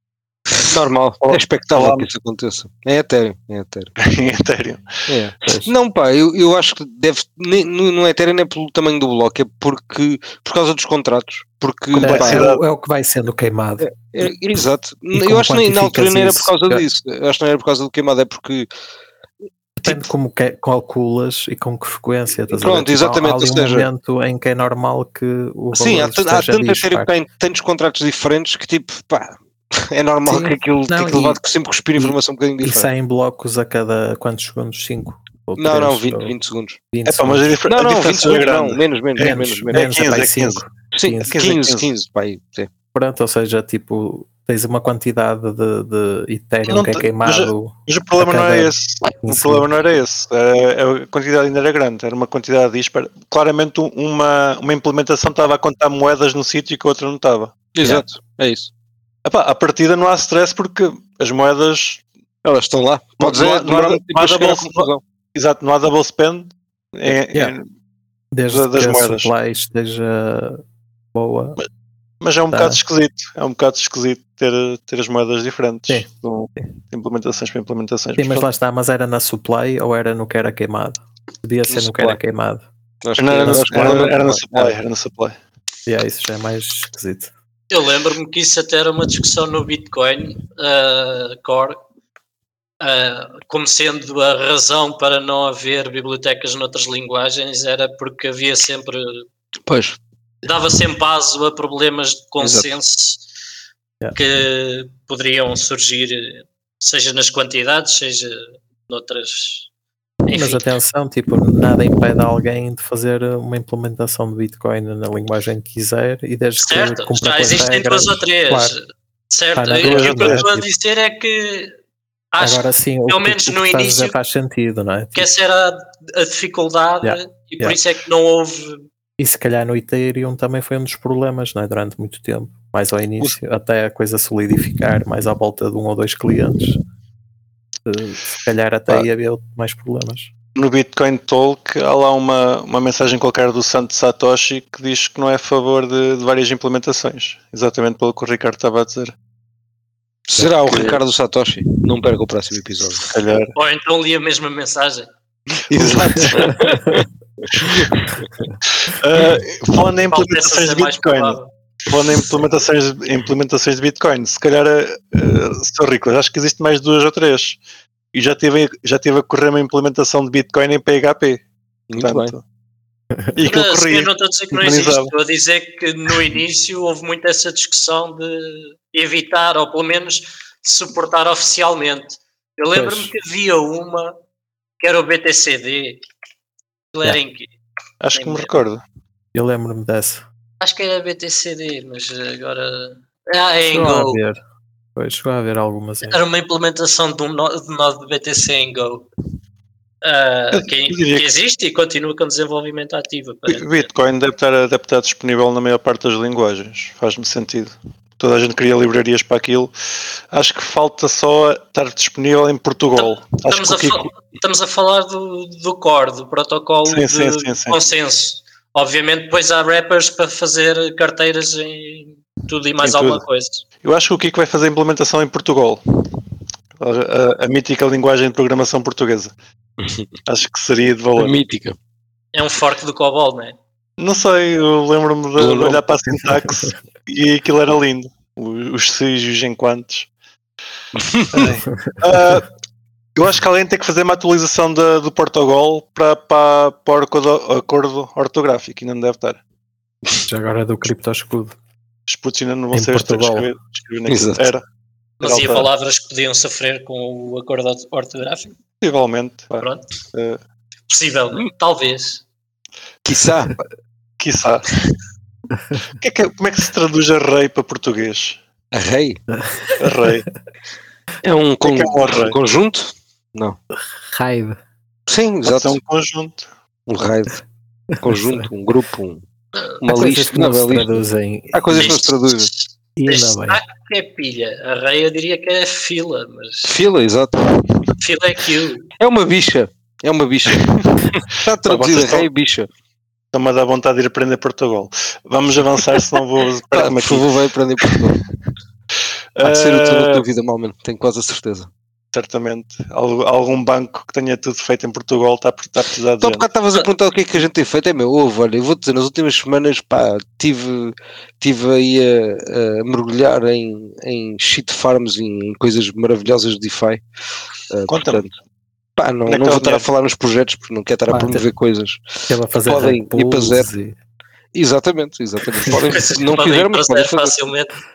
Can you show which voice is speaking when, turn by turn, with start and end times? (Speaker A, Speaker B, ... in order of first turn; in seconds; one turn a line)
Speaker A: 0.7-3.9
Speaker B: 1.2-2.1
Speaker B: 4.0-4.8
Speaker A: 5.1-12.5
Speaker C: 11.9-13.9
Speaker B: 12.0-12.6
Speaker A: 13.8-18.7
Speaker C: 15.1-16.9
Speaker C: 19.8-27.1
Speaker A: 22.5-23.9
Speaker A: 25.7-32.9
Speaker C: 30.2-31.4
Speaker C: 32.0-36.4
Speaker A: 35.6-36.8
Speaker C: 36.9-37.5
Speaker B: 37.1-40.6
Speaker A: 37.7-39.9
Speaker C: 39.2-41.4
Speaker A: 40.9-42.7
Speaker B: 41.3-41.9
Speaker C: 42.9-49.7
Speaker B: 46.7-57.5
Speaker A: 57.7-58.7
Speaker B: 59.2-62.0
Speaker A: 62.4-65.0
Speaker B: 63.2-67.6
Speaker C: 68.3-70.6
Speaker B: 68.5-69.3
Speaker C: 71.1-71.6
Speaker B: 72.2-78.5
Speaker C: 72.5-72.8
Speaker C: 75.9-76.7
Speaker C: 78.2-82.6
Speaker A: 81.7-82.2
Speaker A: 83.0-84.8
Speaker B: 83.2-85.3
Speaker C: 83.4-84.2
Speaker C: 85.9-87.3
Speaker D: 87.7-91.8
Speaker D: 92.8-99.2
Speaker A: 99.7-100.0
Speaker D: 100.4-103.2
Speaker A: 102.4-102.7
Speaker D: 104.2-109.7
Speaker D: 110.3-110.6
Speaker C: 110.3-118.8
Speaker D: 116.6-118.8
Speaker D: 119.3-121.7
Speaker C: 119.5-120.7
Speaker B: 119.8-120.5
Speaker D: 122.3-124.1
Speaker C: 122.4-125.3
Speaker D: 125.2-128.8
Speaker C: 127.0-127.8
Speaker C: 129.2-136.8
Speaker C: 137.9-140.3
Speaker B: 140.6-149.1
Speaker A: 150.3-153.1
Speaker B: 150.6-151.0
Speaker B: 153.1-153.5
Speaker D: 153.5-155.1
Speaker A: 155.7-157.0
Speaker B: 155.7-156.6
Speaker A: 157.6-157.9
Speaker B: 158.8-167.6
Speaker D: 160.1-161.5
Speaker B: 168.1-171.4
Speaker A: 171.9-172.3
Speaker B: 172.0-172.4
Speaker B: 173.3-175.1
Speaker D: 173.4-184.1
Speaker C: 182.7-183.1
Speaker D: 184.8-186.0
Speaker D: 186.9-187.5
Speaker B: 188.0-188.8
Speaker D: 188.1-188.5
Speaker C: 189.3-190.2
Speaker D: 190.6-194.2
Speaker C: 193.7-194.4
Speaker C: 195.0-196.2
Speaker D: 196.1-199.1
Speaker D: 200.0-203.9
Speaker B: 200.5-201.3
Speaker B: 203.5-209.7
Speaker B: 210.3-214.1
Speaker D: 212.9-223.6
Speaker B: 216.9-217.8
Speaker B: 222.8-223.2
Speaker B: 223.8-225.8
Speaker B: 226.8-229.3
Speaker A: 229.8-230.1
Speaker B: 230.3-231.4
Speaker A: 231.2-231.8
Speaker D: 232.3-233.6
Speaker B: 234.0-240.1
Speaker A: 235.4-235.8
Speaker A: 241.0-241.5
Speaker B: 241.3-242.5
Speaker B: 243.2-249.4
Speaker C: 250.2-251.6
Speaker B: 252.1-254.6
Speaker C: 252.7-253.5
Speaker A: 254.1-254.5
Speaker D: 255.2-258.6
Speaker B: 255.2-255.7
Speaker B: 258.8-260.4
Speaker D: 259.6-259.8
Speaker D: 260.9-262.2
Speaker A: 263.1-263.5
Speaker B: 264.2-264.7
Speaker B: 266.0-268.4
Speaker A: 268.7-269.2
Speaker C: 269.3-270.1
Speaker B: 269.8-270.2
Speaker A: 271.2-273.6
Speaker B: 271.6-272.4
Speaker C: 274.1-274.6
Speaker A: 275.1-275.8
Speaker B: 275.4-276.5
Speaker A: 276.9-277.4
Speaker C: 278.0-278.5
Speaker A: 278.0-279.2
Speaker A: 279.8-281.0
Speaker C: 279.9-281.9
Speaker A: 281.5-282.5
Speaker D: 281.7-286.8
Speaker C: 283.0-283.6
Speaker A: 286.6-287.4
Speaker D: 288.0-288.9
Speaker A: 289.0-292.7
Speaker B: 291.6-292.3
Speaker B: 293.3-297.3
Speaker A: 296.7-298.2
Speaker B: 299.4-300.2
Speaker A: 299.4-301.7
Speaker B: 302.1-306.5
Speaker A: 306.2-317.0
Speaker A: 317.7-318.3
Speaker B: 317.9-318.2
Speaker A: 319.0-322.0
Speaker B: 319.3-319.9
Speaker C: 321.1-321.5
Speaker C: 322.3-324.0
Speaker A: 322.6-323.7
Speaker A: 324.5-327.3
Speaker D: 325.8-327.8